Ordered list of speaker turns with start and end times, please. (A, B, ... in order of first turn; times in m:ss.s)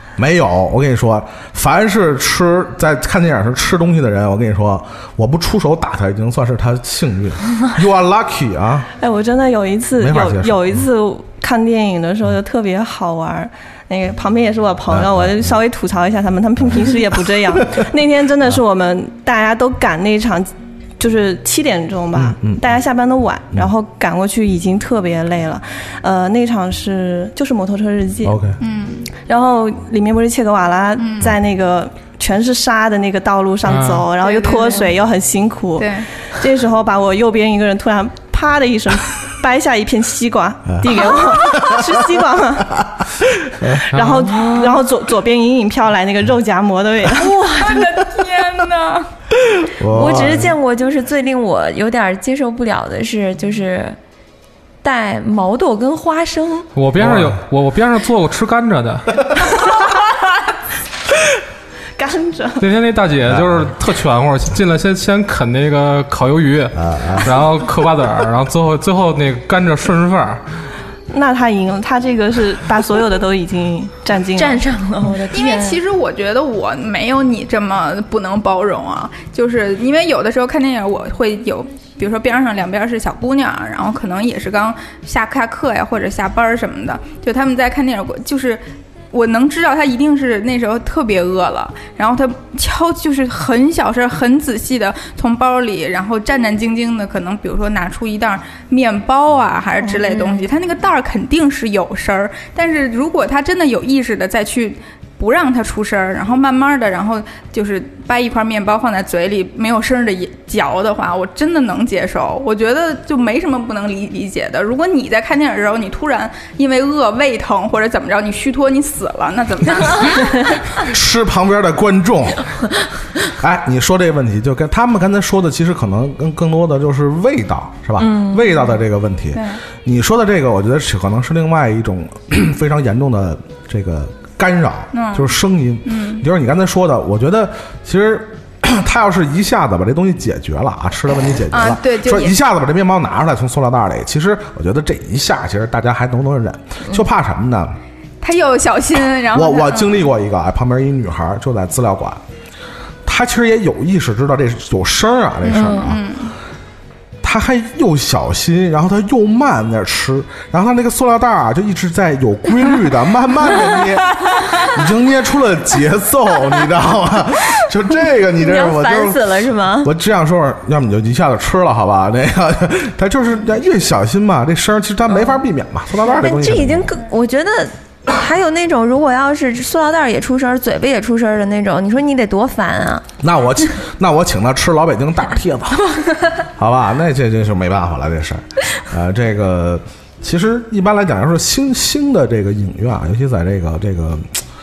0:00.2-0:08.9 A
0:09.0-0:28.4 B
0:10.0-0:10.8 A
0:14.9-0:15.6 A
0:16.6-0:17.0 A
0:22.1-0:22.6 A
0:28.2-0:28.6 A
0:28.6-0:29.1 C
0:29.2-0:42.9 B
0:31.0-0:31.3 C
0:33.7-0:34.1 D
0:34.2-0:34.9 C
0:35.8-0:36.1 C
0:40.7-0:42.1 A
0:43.5-0:43.8 A
0:43.7-0:47.3 B
0:43.9-0:44.3 D
0:44.3-0:44.8 E
0:47.4-0:49.1 C
0:47.5-0:47.8 E
0:49.6-0:50.6 A
0:49.9-0:54.0 E
0:54.8-0:56.7 E
0:56.8-0:59.5 D
0:57.0-0:57.4 A
1:02.0-1:02.7 B
1:02.6-1:10.4 D
1:03.3-1:03.7 A
1:06.8-1:07.3 A
1:11.1-1:14.6 B
1:14.4-1:15.8 E
1:15.3-2:00.6 C
1:39.8-1:40.4 E
2:00.8-2:02.6 A
2:03.3-2:27.8 A
2:09.3-2:09.6 C
2:14.9-2:15.3 C
2:15.8-2:16.2 C
2:21.5-2:22.4 C
2:28.2-2:30.1 C
2:29.3-2:32.2 A
2:33.1-2:36.0 A
2:35.4-2:36.4 C
2:35.5-2:35.9 E
2:37.2-2:56.9 A
2:48.4-2:49.9 E
2:55.1-2:55.4 E
2:56.1-3:03.0 E
3:03.2-3:05.9 A
3:06.5-3:14.4 A